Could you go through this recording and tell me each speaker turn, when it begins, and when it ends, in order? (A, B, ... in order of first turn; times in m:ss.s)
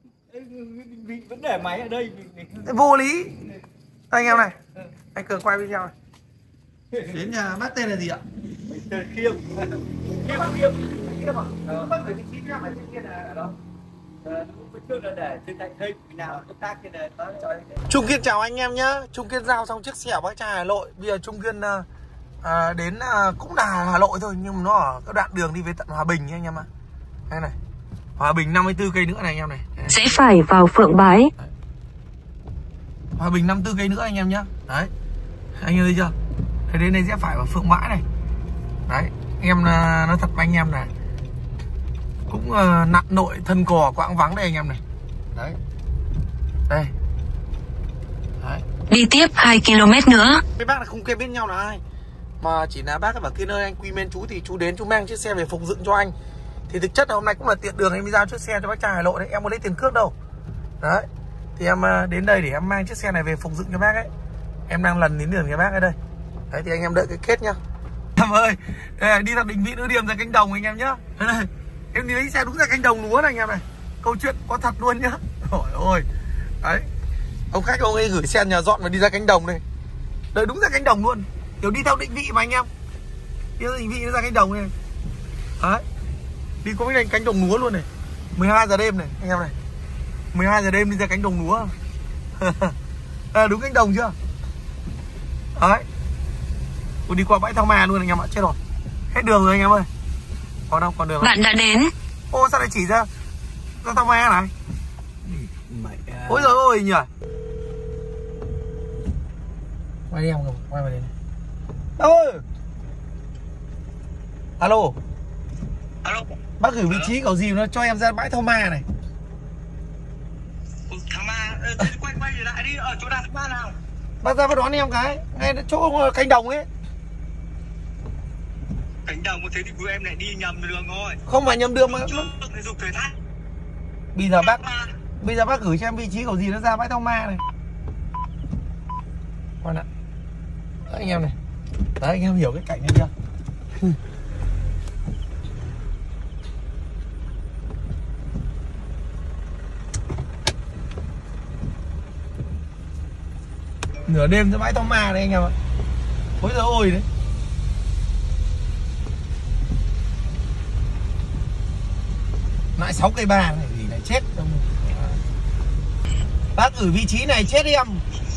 0:00.3-0:02.7 A
0:02.6-0:03.3 B
0:04.1-0:04.6 B
0:04.2-0:04.9 A
0:05.1-0:05.9 B
0:06.9-0:07.2 A
0:07.0-0:08.2 B
0:08.6-0:10.8 A
0:10.2-0:13.5 B
0:11.6-0:12.0 A
0:14.2-0:17.8 A
0:17.9-0:21.8 B
0:22.4-0:26.7 B
0:27.3-0:27.6 B
0:28.2-0:30.2 B
0:29.9-0:31.3 C
0:33.2-0:34.9 B
0:35.6-0:36.1 B
0:36.7-0:38.0 B
0:38.9-0:40.9 B
0:42.3-0:44.8 B
0:48.9-0:50.4 C
0:50.6-0:51.8 B
0:52.4-0:56.1 B
0:56.7-1:00.1 B
1:00.8-1:04.1 B
1:04.7-1:06.0 B
1:06.5-1:07.6 B
1:08.2-1:16.1 B
1:16.6-1:16.9 B
1:17.5-1:19.6 B
1:20.3-1:22.7 B
1:23.6-1:24.7 B
1:25.6-1:25.8 B
1:26.6-1:29.5 B
1:30.3-1:31.7 B
1:32.4-1:32.7 B
1:33.3-1:34.1 B
1:35.6-1:35.8 B
1:37.1-1:38.6 B
1:39.1-1:39.9 B
1:40.7-1:41.4 B
1:41.2-1:41.9 C
1:42.3-1:43.1 B
1:43.8-1:44.5 B
1:45.9-1:46.3 D
1:46.2-1:47.1 B
1:50.1-1:51.1 B
1:52.0-1:52.4 B
1:54.6-1:55.0 B
1:56.0-1:56.4 D
1:56.6-1:58.8 B
1:56.9-1:57.1 D
2:00.9-2:03.8 D
2:04.2-2:06.7 B
2:09.0-2:11.2 D
2:11.2-2:12.3 B
2:12.0-2:13.1 D
2:14.1-2:14.6 B
2:14.4-2:14.9 D
2:15.2-2:17.4 B
2:19.6-2:19.9 B
2:20.8-2:21.4 B
2:22.0-2:23.1 B
2:34.1-2:35.5 B
2:36.4-2:37.0 B
2:42.8-2:45.2 B
2:46.5-2:48.0 B